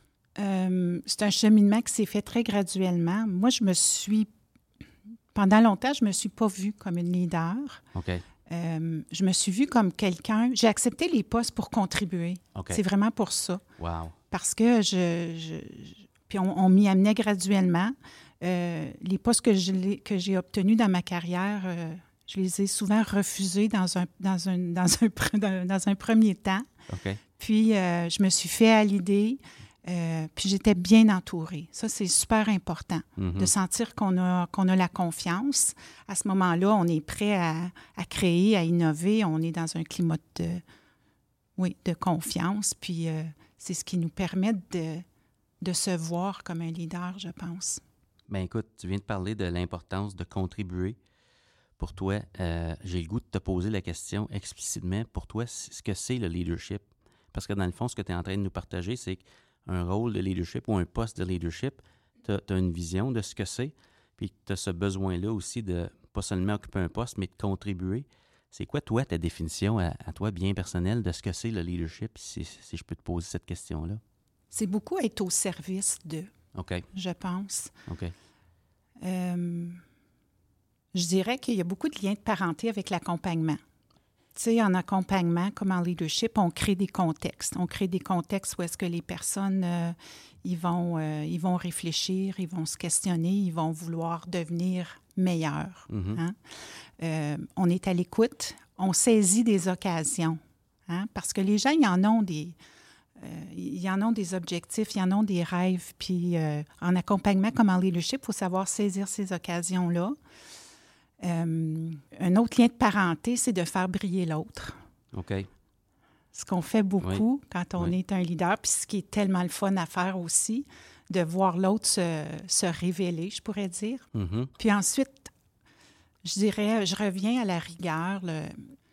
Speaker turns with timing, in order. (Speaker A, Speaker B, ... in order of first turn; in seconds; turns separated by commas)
Speaker A: 0.4-4.3, Speaker A: 5.3-7.8, Speaker B: 7.9-8.2, Speaker A: 8.5-13.6, Speaker B: 12.6-12.8, Speaker B: 13.8-14.2, Speaker A: 14.3-26.7, Speaker B: 26.9-27.2, Speaker A: 27.4-40.6, Speaker B: 33.2-33.5, Speaker A: 41.6-45.0, Speaker A: 45.6-47.8, Speaker B: 48.3-51.0, Speaker B: 51.8-74.0, Speaker A: 74.5-76.3, Speaker B: 76.5-76.9, Speaker A: 76.9-77.8, Speaker B: 77.9-78.1, Speaker A: 79.0-79.8, Speaker A: 80.9-83.6, Speaker A: 84.3-96.4, Speaker B: 95.9-96.2, Speaker A: 97.0-102.6, Speaker A: 103.2-110.2, Speaker A: 111.2-114.8, Speaker B: 115.1-115.5, Speaker A: 116.3-124.1, Speaker B: 124.1-124.5, Speaker A: 124.6-125.3, Speaker A: 126.2-128.7